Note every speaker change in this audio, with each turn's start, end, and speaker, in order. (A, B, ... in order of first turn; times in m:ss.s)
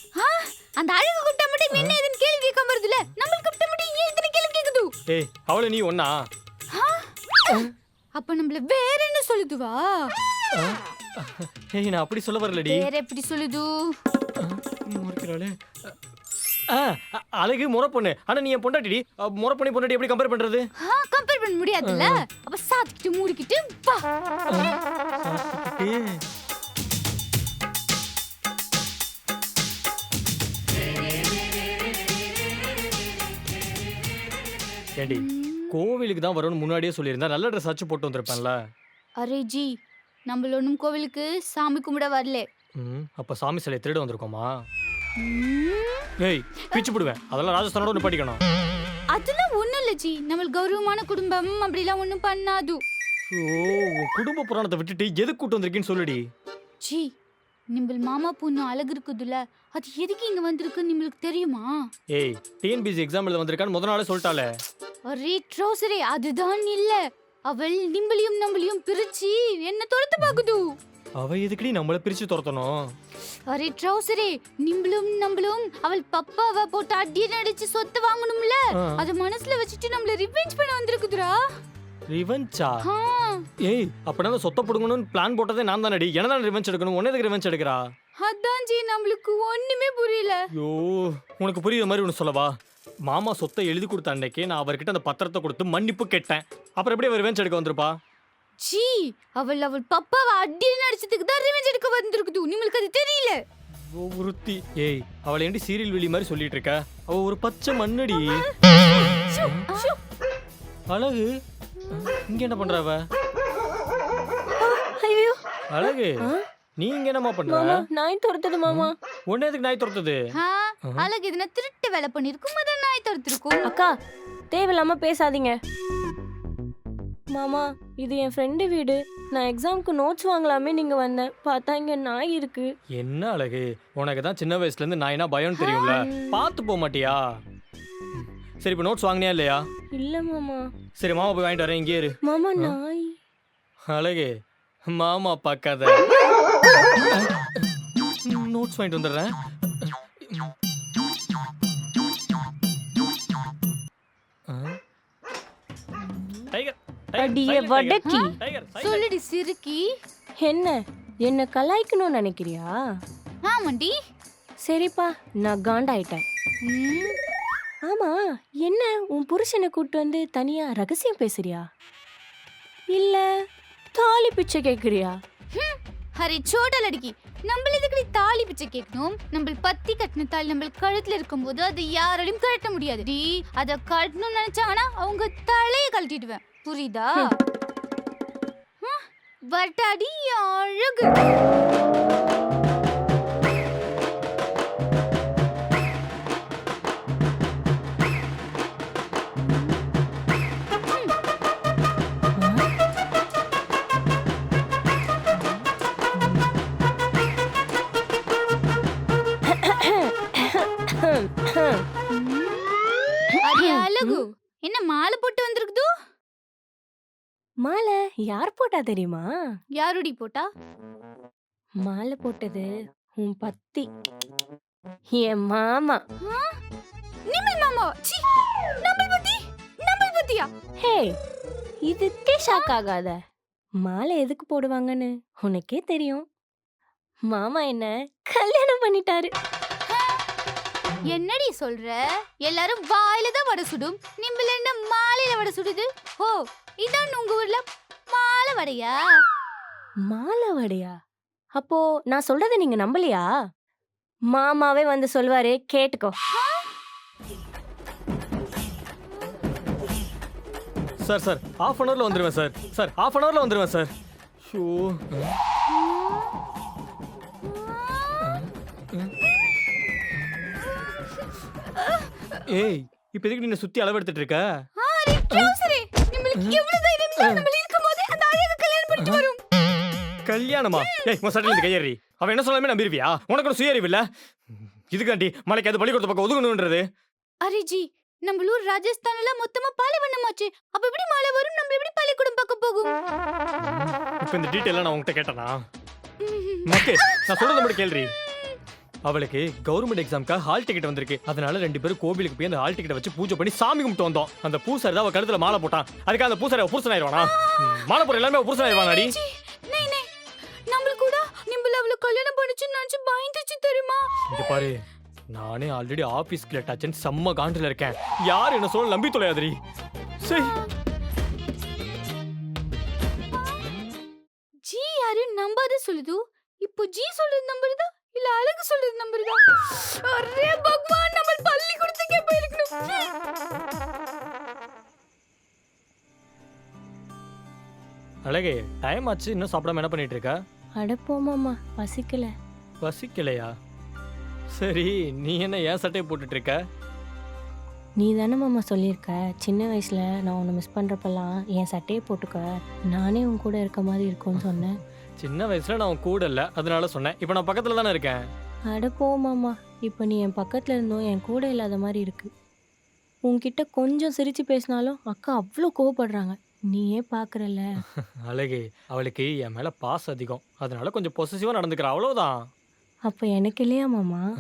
0:00.2-0:04.9 A
0:01.7-0:02.0 B
0:05.1-0:06.2 B
0:06.7-0:10.1 A
0:10.5-0:12.9 B
0:12.7-0:13.9 A
0:14.4-0:16.0 B
0:16.7-0:20.7 B
0:20.8-0:24.0 A
0:21.8-0:22.2 B
0:24.5-0:26.2 B
0:35.0-0:38.6 B
0:35.1-0:35.8 A
0:39.2-0:39.8 A
0:40.3-0:42.5 A
0:42.8-0:44.6 B
0:45.2-0:46.1 A
0:46.2-0:48.4 B
0:49.1-0:52.8 A
0:53.3-0:56.3 B
0:56.8-0:57.1 A
0:57.7-1:01.8 A
1:02.1-1:04.5 B
1:05.1-1:10.7 A
1:11.2-1:12.9 B
1:13.5-1:21.4 A
1:18.7-1:19.0 B
1:22.1-1:22.8 B
1:22.8-1:23.5 A
1:23.6-1:27.9 B
1:28.2-1:30.5 A
1:30.5-1:32.6 B
1:33.1-1:38.0 B
1:38.6-1:43.4 A
1:43.8-1:48.4 B
1:48.7-1:50.0 A
1:49.4-1:49.7 B
1:50.9-1:51.3 B
1:51.9-1:53.1 B
1:54.6-1:56.4 C
1:55.7-1:56.2 B
1:56.8-1:57.8 B
1:57.5-1:59.0 C
1:58.7-2:00.2 B
2:00.3-2:03.7 A
2:03.7-2:03.9 C
2:04.5-2:05.6 C
2:07.4-2:12.7 C
2:13.0-2:17.4 B
2:15.6-2:16.4 C
2:18.1-2:19.6 B
2:20.0-2:20.7 C
2:21.0-2:22.8 B
2:22.3-2:23.2 C
2:23.9-2:24.3 B
2:24.9-2:26.1 B
2:27.1-2:27.7 B
2:28.3-2:30.5 B
2:34.5-2:34.8 B
2:36.0-2:36.5 C
2:36.5-2:39.0 B
2:37.2-2:38.3 C
2:38.0-2:39.9 A
2:40.4-2:42.7 C
2:43.5-2:44.0 A
2:44.6-2:46.2 C
2:46.6-2:47.2 A
2:47.9-2:51.7 C
2:52.9-2:53.3 C
2:53.9-2:55.2 C
2:55.5-3:07.3 A
3:08.8-3:11.1 A
3:22.4-3:22.7 C
3:25.4-3:26.5 C
3:29.4-3:31.8 C
3:32.1-3:32.7 A
3:33.3-3:34.2 C
3:33.5-3:35.9 A
3:37.6-3:39.3 C
3:39.8-3:40.5 A
3:41.8-3:43.9 C
3:45.1-3:46.0 C
3:46.2-3:46.6 A
3:47.3-3:50.5 A
3:50.8-3:51.2 C
3:51.8-3:53.2 C
3:52.5-3:52.7 A
3:53.8-3:56.3 C
3:57.3-3:59.3 C
3:59.9-4:00.2 A
4:01.1-4:09.0 A
4:10.1-4:11.0 C
4:11.6-4:13.3 C
4:14.3-4:16.2 C
4:16.3-4:16.7 A
4:21.0-4:23.9 B
4:24.4-4:25.4 B
4:25.7-4:26.4 A
4:27.4-4:28.5 A
4:28.2-4:29.1 B
4:30.2-4:30.5 B
4:31.8-4:32.4 A
4:32.4-4:34.6 B
4:34.8-4:39.4 A
4:37.2-4:37.5 B
4:39.0-4:39.3 B
4:40.3-4:46.8 B
4:40.7-4:41.5 A
4:47.4-4:52.9 A
4:53.6-4:55.6 B
4:56.2-4:57.7 A
4:56.7-4:58.1 B
4:59.1-5:09.1 B
5:07.2-5:08.0 A
5:08.6-5:10.1 A
5:10.7-5:14.5 A
5:14.3-5:14.8 B
5:15.3-5:19.6 B
5:20.2-5:20.5 B
5:20.2-5:20.7 A
5:23.3-5:23.7 A
5:24.6-5:33.1 A
5:38.3-5:40.4 B
5:40.8-5:42.3 C
5:42.8-5:43.5 B
5:44.5-5:46.6 B
5:48.0-5:54.8 C
5:54.4-5:58.3 B
5:58.7-6:02.3 C
6:03.3-6:07.8 C
6:07.8-6:12.5 B
6:13.1-6:14.2 C